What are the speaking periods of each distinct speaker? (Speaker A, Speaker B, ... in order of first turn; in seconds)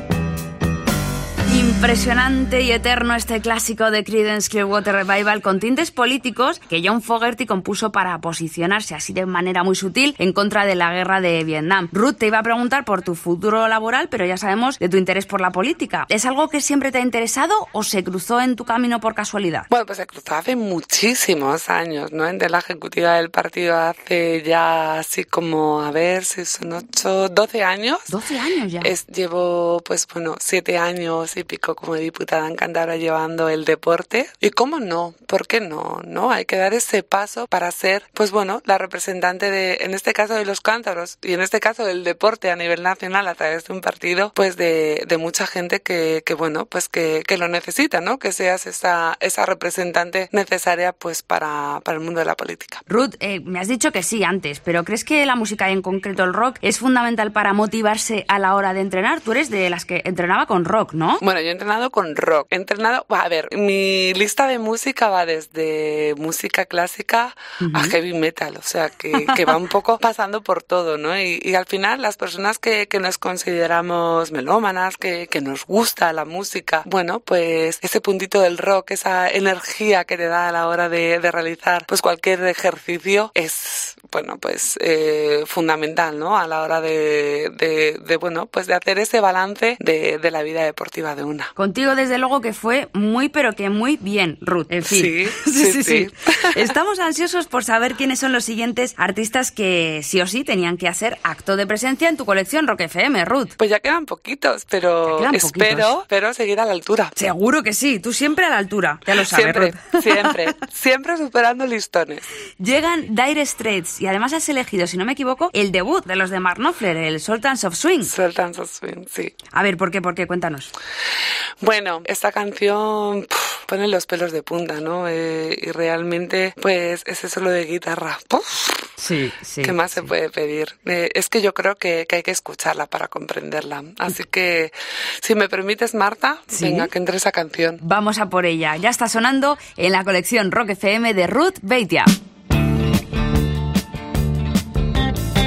Speaker A: 1.5-19.7, 28.1-28.9, 52.9-61.2, 67.6-68.0, 69.2-69.5, 91.5-103.5, 105.1-105.9, 107.2-110.3, 112.6-118.1, 119.5-120.7, 129.0-130.1, 136.5-136.9, 137.8-142.1
Speaker B: 19.7-28.1, 28.8-52.8, 61.2-91.5, 94.9-96.6, 103.6-107.1, 109.1-112.3, 118.0-119.3, 121.6-128.9, 129.6-137.8